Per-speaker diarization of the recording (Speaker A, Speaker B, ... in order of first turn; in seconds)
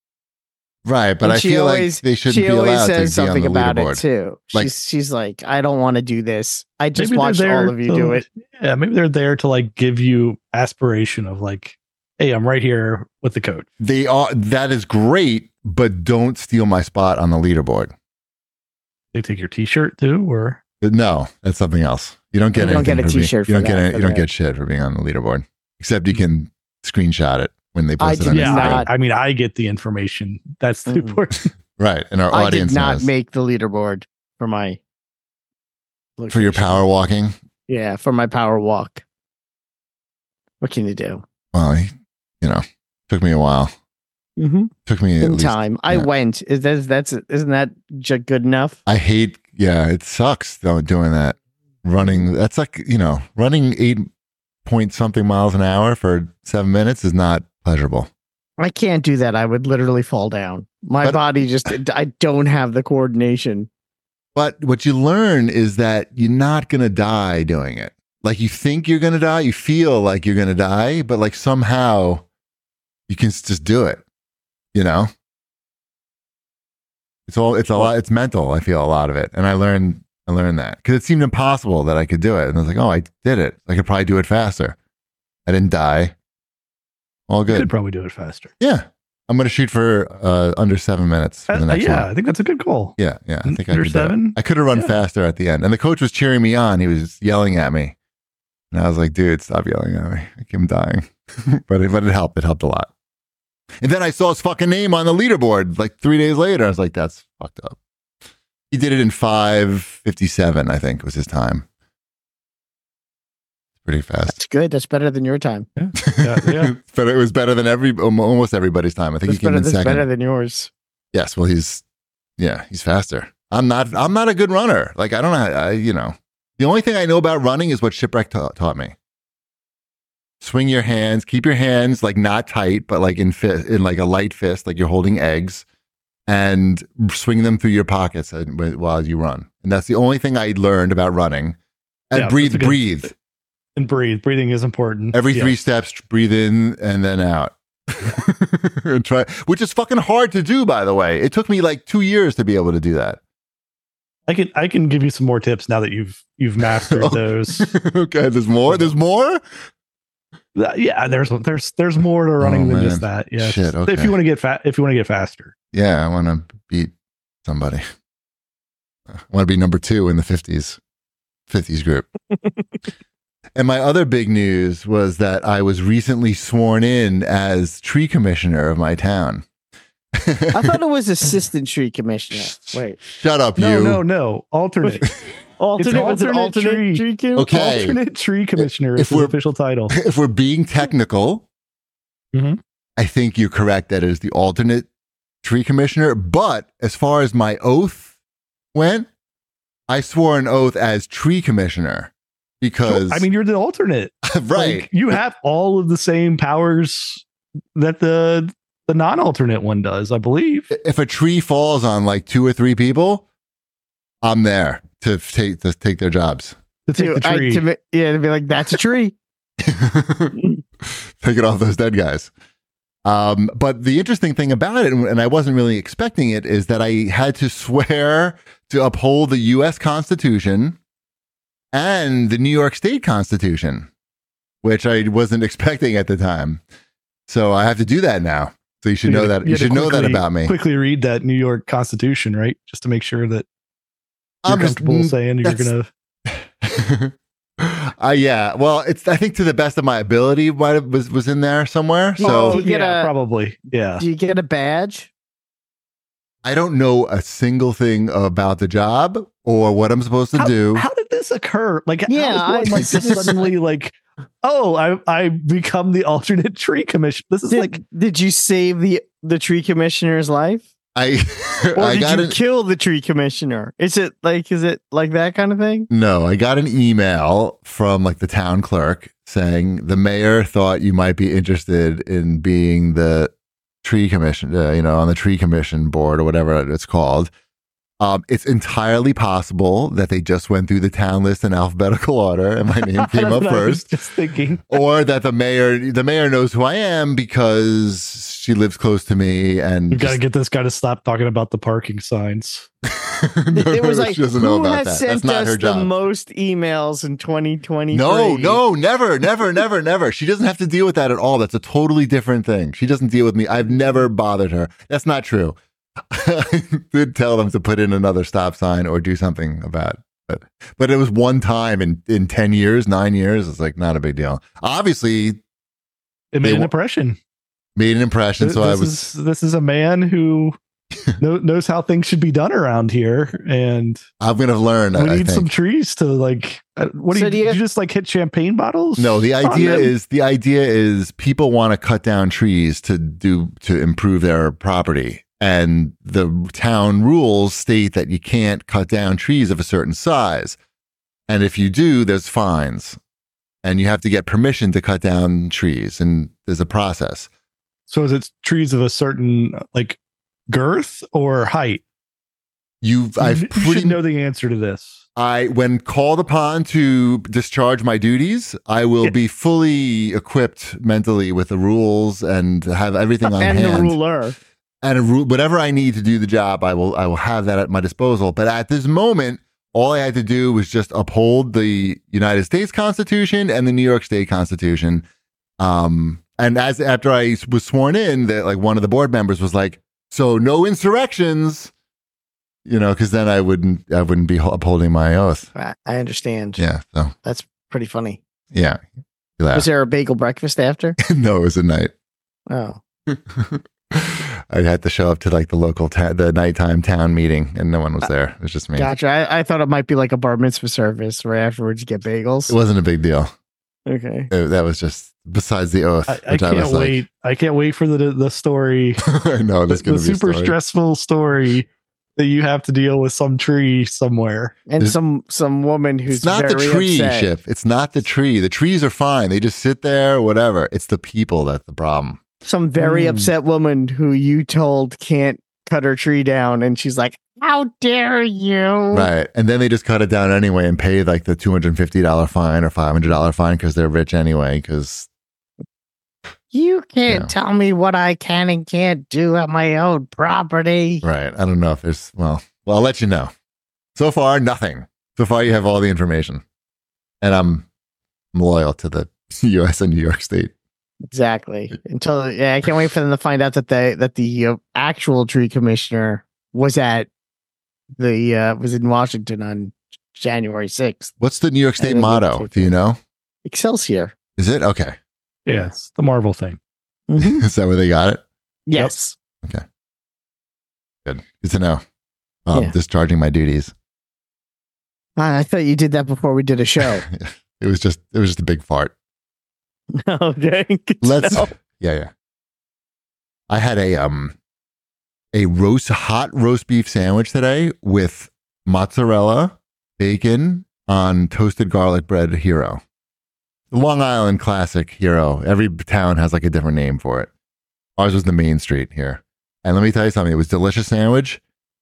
Speaker A: 0.8-4.7, 13.8-17.9, 20.8-28.9, 31.8-33.1, 36.3-37.3, 41.5-43.7, 44.9-46.1, 48.9-54.1, 54.6-58.1, 64.3-72.2, 73.1-74.0, 74.7-75.1, 77.3-84.8, 85.5-86.1, 87.3-87.7, 88.6-92.1, 93.0-97.9, 98.7-102.9, 103.8-107.8, 108.7-111.6, 113.8-114.3, 116.0-120.0, 121.1-121.8, 122.4-128.9, 130.4-135.6, 136.3-141.6, 142.1-143.1, 145.1-153.2, 156.8-159.4, 162.4-164.2, 165.7-166.9, 167.4-167.8, 169.1-170.8, 171.5-172.1, 173.5-179.4, 180.1-180.8, 183.0-184.0, 187.3-188.0, 188.6-189.3, 189.9-191.4, 193.0-194.9, 195.4-198.1, 198.7-199.1, 199.9-203.2, 204.2-204.9, 210.7-213.2, 214.2-216.6, 219.6-222.3, 223.0-230.8, 231.7-233.9, 234.6-236.6, 237.3-240.5, 244.4-245.7, 246.3-252.6, 256.4-260.9, 262.7-263.2, 270.9-272.4, 275.9-283.3, 283.8-287.3, 288.0-293.9, 294.7-300.2, 302.9-305.9, 307.9-315.6, 316.1-325.4, 326.4-326.7, 327.8-329.1, 334.2-335.5, 339.0-350.6, 351.3-353.0, 353.6-357.3, 362.8-364.0, 365.1-374.0, 374.8-385.1, 385.6-391.7, 392.6-395.5, 396.6-397.1, 398.5-398.8, 399.4-399.7, 401.0-401.9, 403.1-408.9, 412.5-413.3, 414.3-417.0, 419.0-420.5, 426.1-432.2, 438.9-445.1, 451.0-453.3, 453.9-456.4, 457.2-457.6, 458.3-460.5, 471.2-473.0, 474.4-474.9, 477.2-478.2, 481.0-481.8, 482.4-483.7, 486.8-488.9, 491.0-492.1, 493.5-494.3, 495.3-502.8, 503.7-507.3, 508.0-511.4
Speaker B: 1.2-8.2, 22.5-24.2, 28.0-28.9, 30.9-31.2, 32.3-34.8, 36.2-36.9, 37.7-39.0, 40.6-41.2, 44.4-48.8, 58.6-63.7, 114.3-115.7, 119.2-120.7, 180.5-183.0, 185.6-187.5, 216.9-219.2, 252.2-253.1, 254.0-255.1, 262.1-263.5, 267.5-270.7, 271.7-275.9, 303.5-308.6, 337.1-337.6, 373.2-374.4, 395.6-396.6, 397.2-398.2, 399.5-401.0, 402.5-402.8, 408.8-412.5, 413.9-414.3, 424.7-427.3, 432.4-439.1, 446.5-451.0, 461.1-467.1, 468.0-471.1, 471.8-472.7, 473.4-474.1, 477.1-477.4, 478.7-479.1, 485.2-487.0, 489.9-491.5
Speaker C: 7.0-13.7, 19.1-20.6, 28.3-31.5, 87.5-88.5, 91.5-94.9, 115.8-116.7, 142.1-143.1, 143.8-145.5, 154.3-157.7, 158.7-158.9, 160.5-165.5, 183.6-185.1, 185.8-189.9, 192.3-192.6, 202.9-207.2, 207.7-210.7, 216.9-217.6, 239.0-243.4, 244.5-245.9, 252.2-254.0, 260.4-267.8, 292.9-294.7, 299.9-302.7, 326.3-327.2, 328.4-330.5, 331.2-334.0, 334.9-339.9, 357.9-360.0, 360.5-361.8, 363.2-365.0, 416.1-419.1, 419.7-424.6, 432.8-433.3, 475.4-476.6